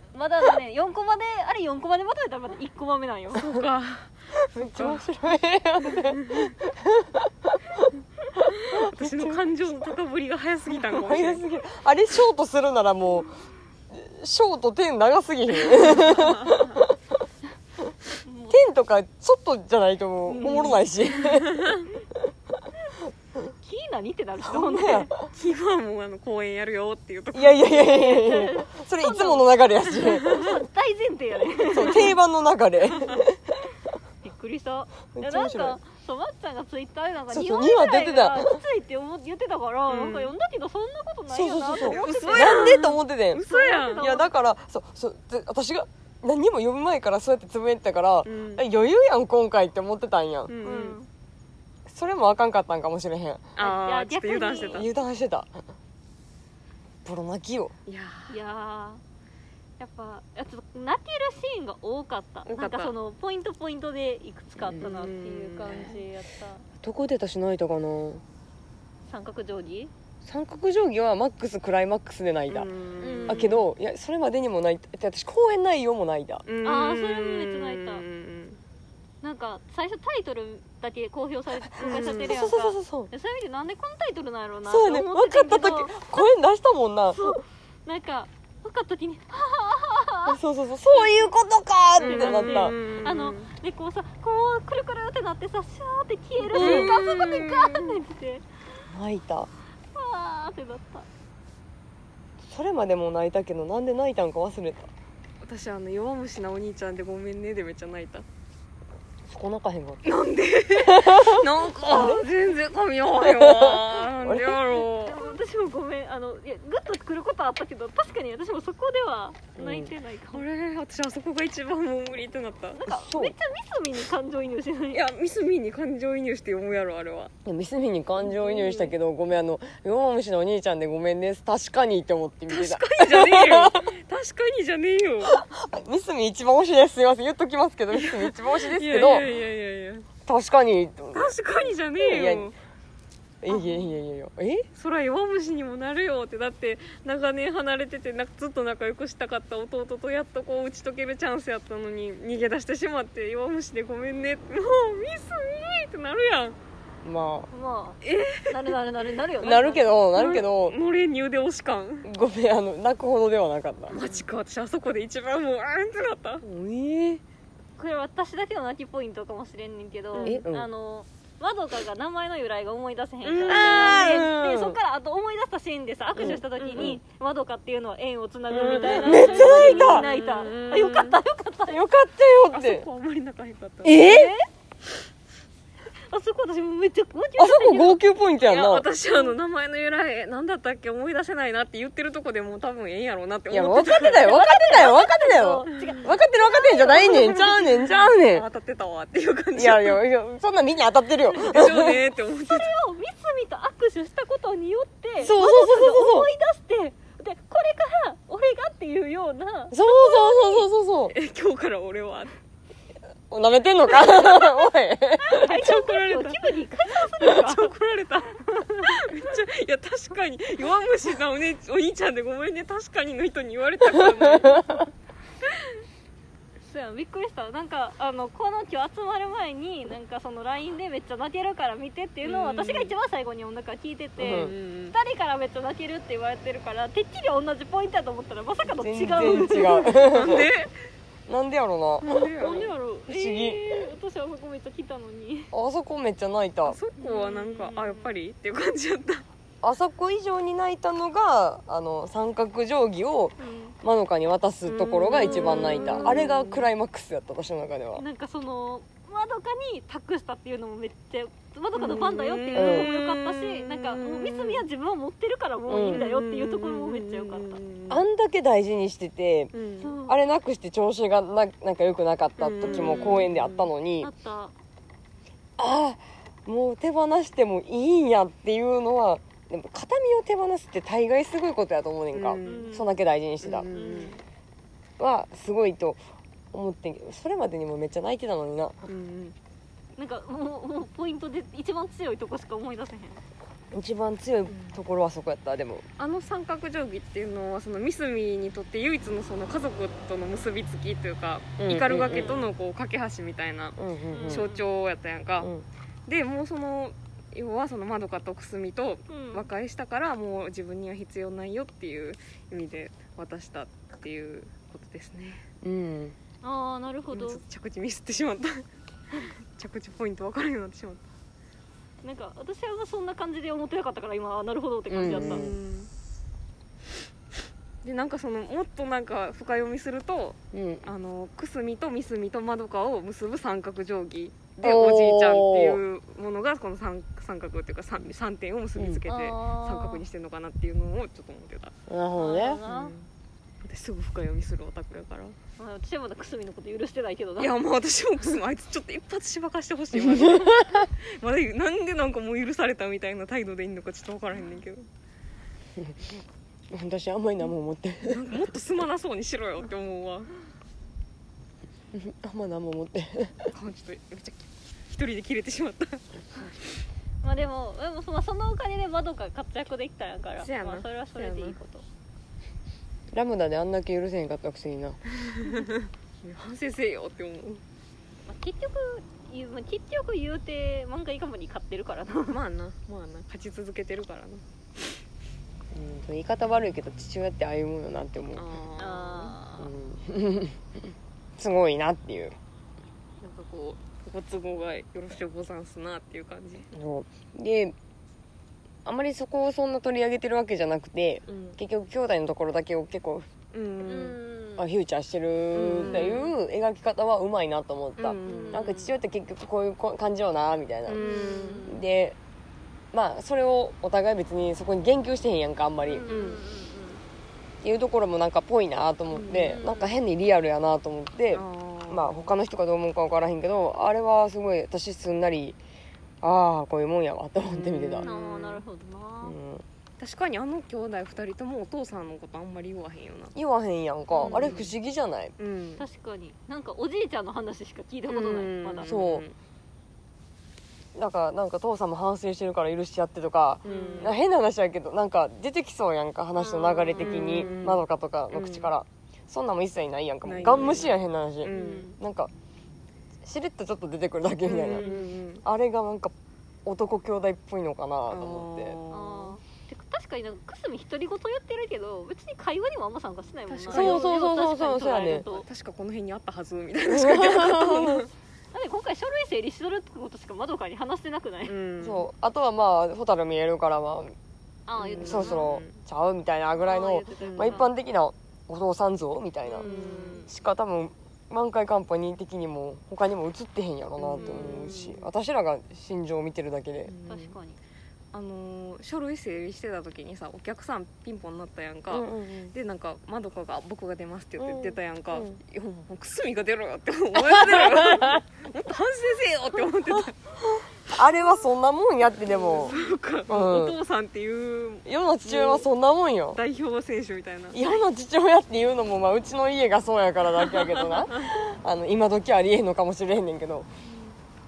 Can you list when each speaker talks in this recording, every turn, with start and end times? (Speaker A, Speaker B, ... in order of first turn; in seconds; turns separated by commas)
Speaker A: 0.1-3.6, Speaker B: 3.4-5.0, Speaker C: 4.5-9.4, Speaker B: 6.1-6.5, Speaker B: 8.5-11.4, Speaker C: 10.7-17.2, Speaker B: 15.7-16.6, Speaker A: 18.3-18.6, Speaker C: 18.5-21.9, Speaker B: 20.3-21.9, Speaker A: 23.6-25.1, Speaker C: 24.4-25.3, Speaker B: 25.3-28.1, Speaker C: 27.3-30.5, Speaker A: 27.8-32.2, Speaker B: 30.1-30.5, Speaker C: 31.7-33.8, Speaker A: 34.2-42.8, Speaker C: 35.1-35.8, Speaker C: 37.3-38.6, Speaker B: 39.9-40.3, Speaker C: 41.3-50.5, Speaker B: 41.8-44.1, Speaker A: 43.4-44.3, Speaker B: 48.2-48.6, Speaker B: 50.5-51.0, Speaker A: 50.6-51.1, Speaker C: 51.9-53.5, Speaker B: 53.6-54.9, Speaker A: 53.6-54.9, Speaker C: 54.7-55.6, Speaker C: 57.0-57.8, Speaker B: 57.9-58.4, Speaker A: 58.3-59.0, Speaker A: 59.8-66.7, Speaker B: 62.5-62.9, Speaker C: 64.6-65.2, Speaker B: 64.8-66.0, Speaker C: 66.8-68.2, Speaker A: 69.1-69.9, Speaker C: 70.2-72.7, Speaker B: 72.5-73.7, Speaker A: 73.0-73.5, Speaker C: 73.3-76.5, Speaker B: 76.5-78.6, Speaker A: 76.6-78.0, Speaker A: 79.2-86.3, Speaker C: 81.7-83.1, Speaker B: 81.8-82.4, Speaker C: 84.7-87.4, Speaker A: 87.1-90.4, Speaker C: 90.3-92.8, Speaker A: 90.9-91.3, Speaker B: 92.0-93.5, Speaker A: 92.0-98.6, Speaker B: 96.5-97.9, Speaker C: 96.5-97.5, Speaker C: 98.9-99.5, Speaker A: 99.9-101.1, Speaker C: 102.4-104.9, Speaker B: 105.4-108.2, Speaker C: 109.3-110.0, Speaker B: 110.0-115.3, Speaker C: 110.7-112.3, Speaker C: 113.2-114.6, Speaker A: 114.7-120.5, Speaker C: 119.6-119.9, Speaker B: 120.3-122.8, Speaker A: 122.8-125.0, Speaker C: 122.9-123.4, Speaker B: 124.9-127.3, Speaker C: 127.5-133.9, Speaker B: 128.2-128.9, Speaker B: 132.5-135.4, Speaker C: 135.3-139.3, Speaker B: 137.9-140.1, Speaker C: 140.2-141.3, Speaker B: 141.2-142.6, Speaker C: 142.0-142.5, Speaker C: 143.4-144.7, Speaker B: 143.5-144.0, Speaker B: 144.8-156.6, Speaker C: 157.0-157.5, Speaker A: 157.5-159.9, Speaker B: 158.0-158.7, Speaker C: 159.4-160.8, Speaker B: 160.1-162.1, Speaker C: 162.0-164.0, Speaker B: 163.9-166.4, Speaker C: 166.4-167.2, Speaker A: 167.8-181.9, Speaker B: 170.1-170.4, Speaker C: 170.2-170.7, Speaker B: 173.2-174.0, Speaker C: 173.4-174.8, Speaker C: 176.2-177.0, Speaker B: 176.2-176.9, Speaker B: 178.5-181.2, Speaker C: 178.6-180.1, Speaker C: 181.7-182.9, Speaker B: 182.5-184.0, Speaker C: 183.8-184.3, Speaker A: 183.9-184.5, Speaker A: 186.1-188.0, Speaker C: 187.4-188.9, Speaker B: 188.4-194.4, Speaker C: 193.5-198.5, Speaker A: 194.0-197.6, Speaker B: 197.1-200.0, Speaker C: 199.6-202.0, Speaker B: 201.3-202.7, Speaker A: 202.4-210.7, Speaker C: 205.2-206.3, Speaker C: 209.7-211.1, Speaker B: 211.1-212.3, Speaker C: 213.3-215.5, Speaker A: 215.3-217.7, Speaker B: 215.4-216.6, Speaker B: 217.2-224.9, Speaker A: 218.4-219.1, Speaker C: 224.0-224.8, Speaker A: 226.7-240.1, Speaker B: 232.2-232.9, Speaker C: 234.2-234.5, Speaker B: 234.2-235.0, Speaker C: 238.7-240.5, Speaker B: 239.7-240.7, Speaker C: 241.3-242.3, Speaker B: 242.0-242.7, Speaker A: 242.4-245.5, Speaker C: 243.1-243.9, Speaker C: 245.5-246.8, Speaker B: 246.7-249.2, Speaker A: 247.0-248.1, Speaker C: 249.6-258.0, Speaker A: 253.4-253.7, Speaker B: 254.7-256.7, Speaker A: 255.3-256.2, Speaker A: 258.0-267.6, Speaker B: 261.7-264.6, Speaker C: 262.6-262.9, Speaker C: 265.7-266.1, Speaker B: 265.8-268.0, Speaker C: 267.9-269.5, Speaker B: 269.5-269.9, Speaker A: 269.8-270.1, Speaker C: 270.1-274.1, Speaker B: 272.4-273.7, Speaker A: 272.6-273.3, Speaker A: 274.0-274.5, Speaker C: 275.6-283.7, Speaker B: 282.1-282.7, Speaker A: 282.4-282.9, Speaker B: 283.4-284.1, Speaker A: 283.7-284.2, Speaker C: 285.0-286.0, Speaker C: 286.5-288.9, Speaker B: 288.9-289.4, Speaker A: 290.0-293.2, Speaker C: 293.7-295.9, Speaker B: 294.5-294.8, Speaker B: 296.0-303.8, Speaker C: 301.6-302.5, Speaker C: 303.8-304.5, Speaker A: 304.1-304.6, Speaker B: 304.3-305.5, Speaker C: 305.4-305.7, Speaker B: 306.1-315.4, Speaker A: 309.1-309.5, Speaker C: 315.6-316.2, Speaker A: 316.4-317.4, Speaker B: 317.1-321.0, Speaker A: 322.0-325.5, Speaker C: 324.9-325.6, Speaker B: 325.1-325.9, Speaker B: 327.8-341.8, Speaker C: 330.5-330.9, Speaker C: 334.6-335.8, Speaker C: 338.8-339.0, Speaker A: 339.1-340.0, Speaker C: 341.9-342.6, Speaker A: 342.2-342.9, Speaker B: 342.7-343.1, Speaker B: 343.6-345.4, Speaker A: 345.6-347.5, Speaker B: 347.4-354.9, Speaker C: 349.9-350.9, Speaker C: 355.8-358.4, Speaker B: 358.1-360.3, Speaker C: 361.9-363.5, Speaker B: 363.5-366.5, Speaker A: 367.2-371.9, Speaker B: 370.4-371.6, Speaker C: 373.1-375.0, Speaker B: 375.2-377.6, Speaker A: 378.3-382.4, Speaker B: 382.3-384.4, Speaker C: 385.7-388.4, Speaker B: 388.4-389.4, Speaker A: 388.8-389.7, Speaker C: 389.6-392.4, Speaker B: 393.2-396.7, Speaker C: 396.7-397.8, Speaker C: 398.9-403.3, Speaker B: 401.3-401.6, Speaker B: 403.5-404.2, Speaker A: 403.8-404.7, Speaker C: 404.6-411.1, Speaker B: 405.5-406.3, Speaker A: 405.8-406.1, Speaker B: 408.0-408.7, Speaker A: 408.2-408.9, Speaker B: 410.9-411.7, Speaker A: 410.9-411.8, Speaker C: 411.6-412.2, Speaker C: 412.9-416.1, Speaker A: 415.9-417.0, Speaker B: 416.1-416.4, Speaker C: 417.6-425.6, Speaker B: 419.1-419.6, Speaker A: 419.4-420.0, Speaker B: 421.3-422.3, Speaker C: 426.2-428.1, Speaker B: 427.4-428.6, Speaker A: 428.0-429.4, Speaker C: 429.2-429.6, Speaker B: 430.0-433.3, Speaker C: 433.4-435.3, Speaker B: 434.1-434.7, Speaker A: 434.2-434.6, Speaker B: 435.4-435.8, Speaker A: 435.8-438.9, Speaker B: 438.1-439.4, Speaker C: 438.9-439.2, Speaker C: 440.9-452.3, Speaker A: 443.6-444.1, Speaker B: 443.6-444.2, Speaker A: 446.4-447.7, Speaker B: 447.0-448.7, Speaker B: 450.2-451.9, Speaker A: 451.5-452.0, Speaker C: 453.2-456.1, Speaker B: 454.5-455.4, Speaker A: 454.7-455.1, Speaker C: 456.6-458.8, Speaker B: 458.1-459.4, Speaker A: 458.9-465.5, Speaker B: 463.5-464.2, Speaker C: 463.7-465.2, Speaker B: 465.1-468.1, Speaker C: 466.9-468.1, Speaker A: 468.5-471.6, Speaker B: 471.4-472.1, Speaker C: 471.8-474.2, Speaker A: 474.7-475.5, Speaker B: 474.8-475.8, Speaker C: 474.9-479.7, Speaker A: 476.6-477.7, Speaker B: 477.2-477.6, Speaker A: 479.5-480.3, Speaker B: 479.6-480.3, Speaker C: 480.3-486.9, Speaker B: 484.0-484.7, Speaker A: 484.2-485.1, Speaker B: 486.9-487.4, Speaker A: 487.0-487.6, Speaker B: 488.1-500.4, Speaker C: 491.9-492.5, Speaker C: 494.4-495.4, Speaker C: 497.2-498.2, Speaker C: 500.9-502.8, Speaker B: 502.3-505.7, Speaker C: 503.3-503.8, Speaker C: 504.9-506.4, Speaker B: 506.4-507.6, Speaker C: 507.5-513.7, Speaker B: 513.9-514.2